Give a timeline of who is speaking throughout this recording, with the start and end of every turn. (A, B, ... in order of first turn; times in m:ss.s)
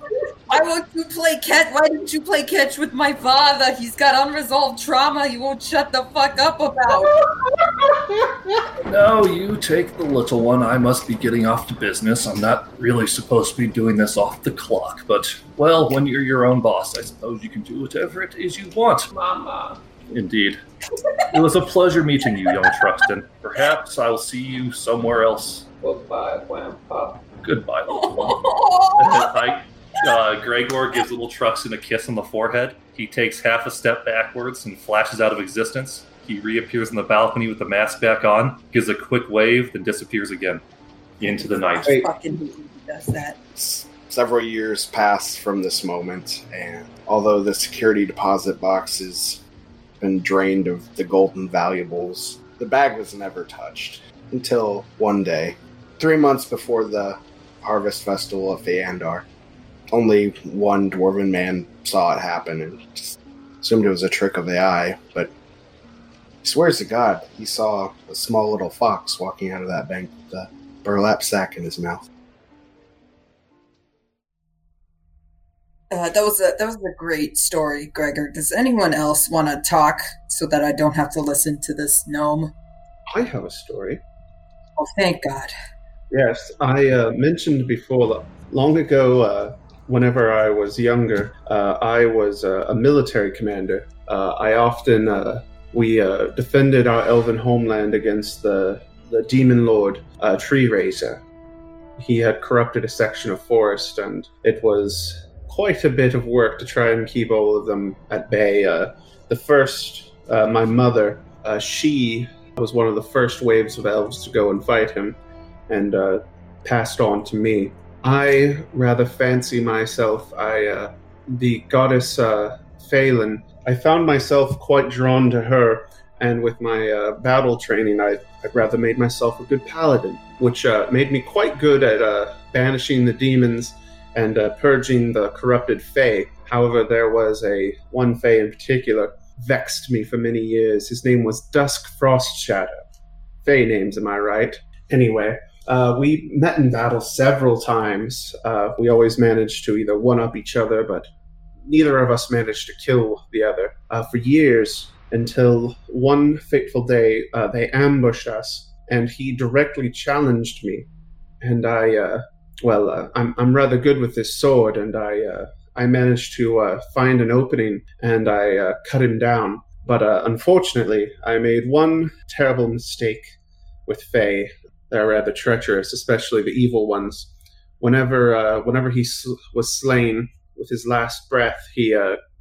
0:00.5-0:07.1 A
0:08.8-0:19.1 B
0:20.1-0:20.6 B
0:21.3-0:26.4 B
0:27.0-0:40.6 B
0:27.9-0:29.4 A
0:41.2-0:42.0 B
0:41.7-0:43.4 A
0:43.5-0:49.4 C
0:50.0-0:59.3 C
0:59.9-1:05.3 C
1:06.4-1:12.0 C
1:15.9-1:22.5 A
1:23.1-1:24.0 D
1:24.8-1:25.5 A
1:26.1-1:41.2 D
1:42.0-1:55.2 D
1:55.7-2:22.8 D
2:23.4-2:31.1 D
2:31.7-2:40.9 D
2:41.4-2:53.3 D
2:53.8-3:02.2 D